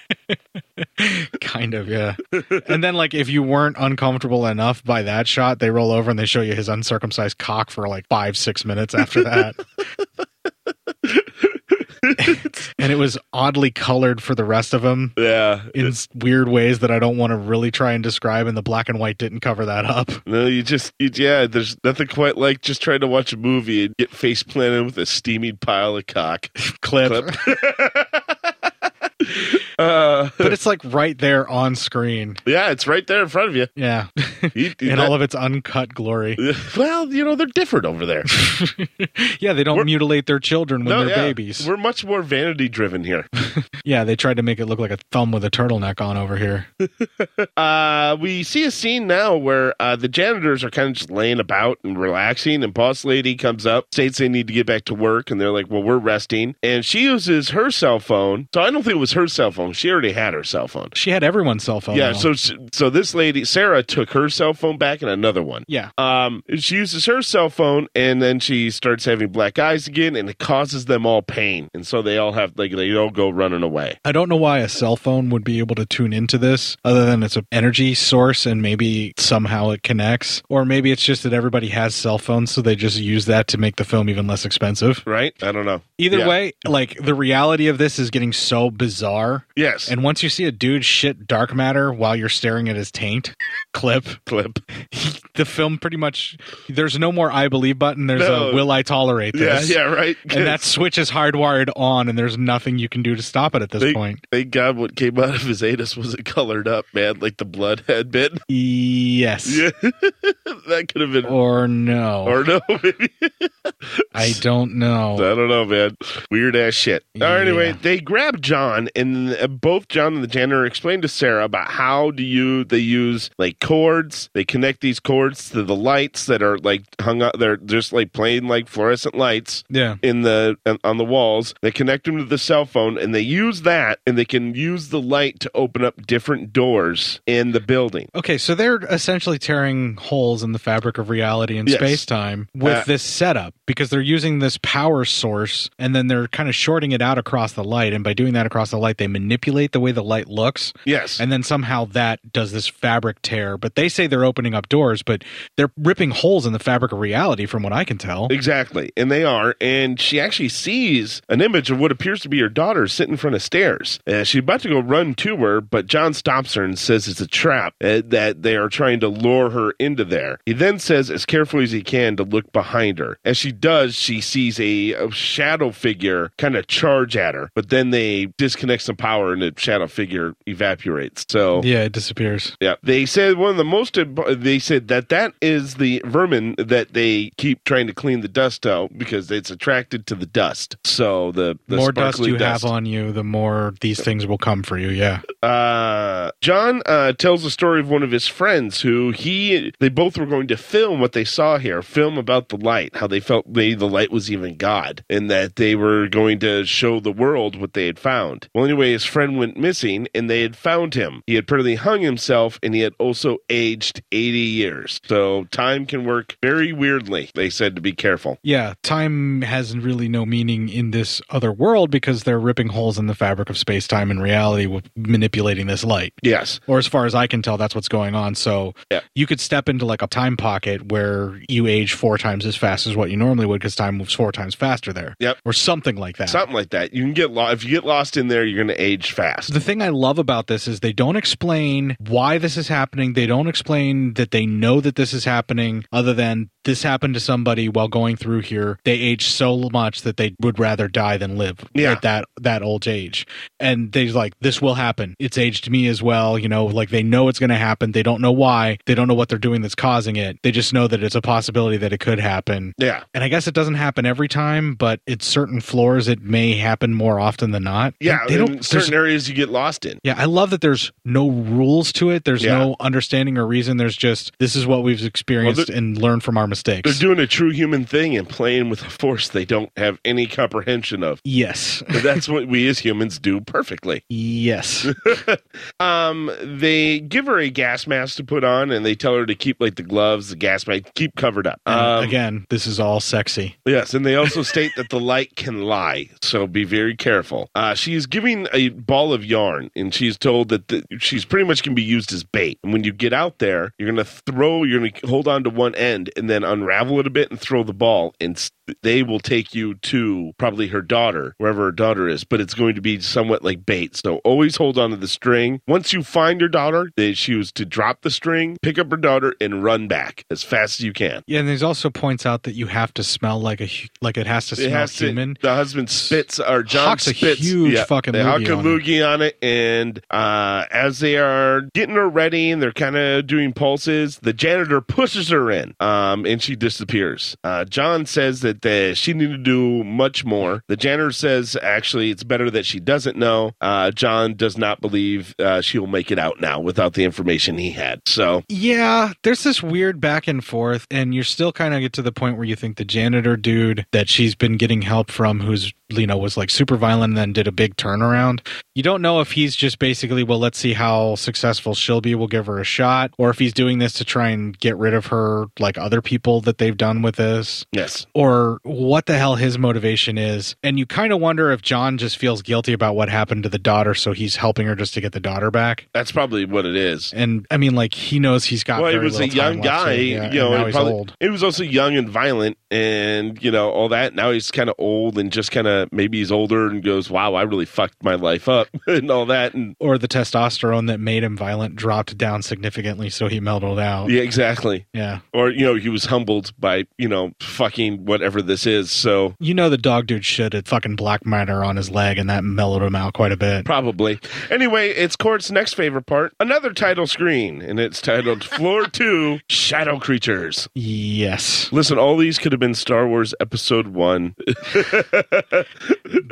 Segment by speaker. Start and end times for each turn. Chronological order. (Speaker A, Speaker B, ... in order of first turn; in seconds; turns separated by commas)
Speaker A: 0.3-9.6, Speaker B: 2.4-2.6, Speaker B: 12.0-12.7, Speaker A: 12.2-15.2, Speaker B: 15.2-15.9, Speaker A: 15.8-20.2, Speaker B: 20.3-26.5, Speaker A: 26.7-27.4, Speaker B: 27.0-28.2, Speaker B: 29.2-30.6, Speaker A: 30.4-32.4, Speaker B: 32.5-33.7, Speaker A: 33.8-36.4, Speaker B: 34.5-35.1, Speaker B: 36.4-38.3, Speaker A: 38.3-41.7, Speaker B: 40.8-43.3, Speaker A: 43.8-46.7, Speaker B: 46.8-60.9, Speaker A: 60.9-62.3, Speaker B: 61.9-74.0, Speaker A: 74.0-85.0, Speaker B: 85.1-86.4, Speaker A: 86.0-94.2, Speaker B: 89.6-89.9, Speaker B: 94.3-94.6, Speaker A: 94.9-99.8, Speaker B: 98.2-98.7, Speaker B: 99.3-100.7, Speaker A: 100.3-104.2, Speaker B: 103.8-108.4, Speaker A: 108.5-109.6, Speaker B: 109.5-111.3, Speaker A: 111.2-112.4, Speaker B: 112.2-113.5, Speaker A: 114.2-115.3, Speaker B: 115.2-138.1, Speaker A: 117.2-117.8, Speaker A: 129.7-130.0, Speaker A: 138.1-158.3, Speaker B: 141.7-142.1, Speaker B: 150.9-151.2, Speaker B: 158.3-181.7, Speaker A: 181.6-182.5, Speaker B: 182.6-192.7, Speaker A: 191.7-195.2, Speaker B: 195.4-218.4, Speaker A: 218.4-236.4, Speaker B: 226.2-226.6, Speaker B: 236.3-239.5, Speaker A: 239.5-268.9, Speaker B: 251.8-252.0, Speaker B: 262.8-263.1, Speaker B: 268.0-270.0, Speaker A: 270.0-277.0, Speaker B: 272.4-272.7, Speaker B: 275.4-275.7, Speaker B: 276.8-281.2, Speaker A: 281.2-282.0, Speaker B: 281.9-284.0, Speaker A: 284.1-284.9, Speaker B: 284.9-292.2, Speaker A: 291.7-293.6, Speaker B: 293.6-321.2, Speaker A: 321.3-325.4, Speaker B: 324.6-348.4, Speaker A: 326.0-328.8, Speaker A: 348.5-375.9, Speaker B: 367.7-368.1, Speaker B: 375.9-377.1, Speaker A: 377.1-381.1, Speaker B: 378.8-389.8, Speaker A: 389.8-394.1, Speaker B: 394.1-399.4, Speaker A: 394.9-395.2, Speaker A: 399.4-403.7, Speaker B: 403.6-410.7, Speaker A: 410.8-411.7, Speaker B: 411.7-416.1